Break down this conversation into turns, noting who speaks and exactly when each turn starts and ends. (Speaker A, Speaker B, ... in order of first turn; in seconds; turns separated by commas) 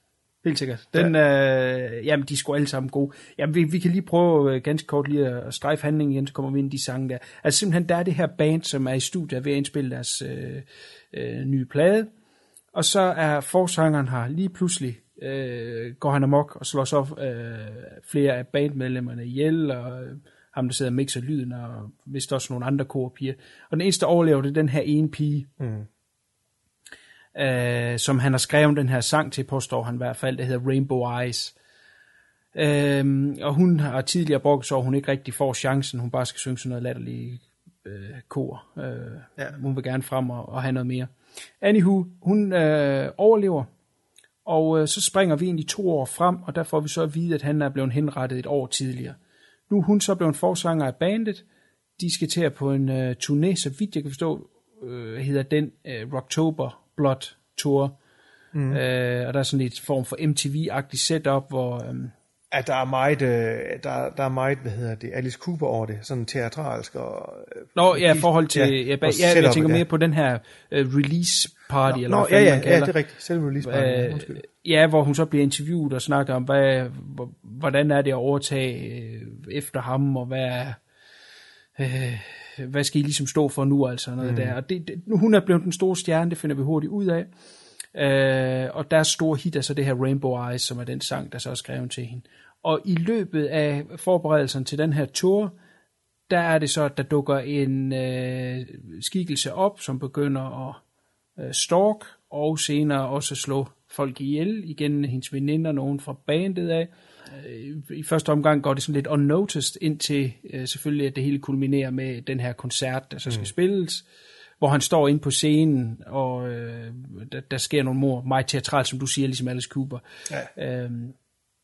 Speaker A: 0.4-12.1, Speaker A: 12.7-25.5, Speaker B: 25.6-25.9, Speaker A: 27.3-31.5, Speaker A: 32.5-43.7, Speaker A: 44.4-49.2, Speaker A: 49.7-51.4, Speaker A: 52.0-57.9, Speaker B: 58.5-58.8, Speaker A: 58.7-62.1, Speaker B: 62.5-69.8, Speaker A: 67.8-72.9, Speaker B: 71.9-74.4, Speaker A: 73.6-80.8, Speaker A: 81.8-87.3, Speaker B: 84.2-84.5, Speaker A: 87.9-95.5, Speaker A: 96.3-100.8, Speaker A: 101.4-114.0, Speaker A: 114.6-120.0, Speaker A: 120.5-121.1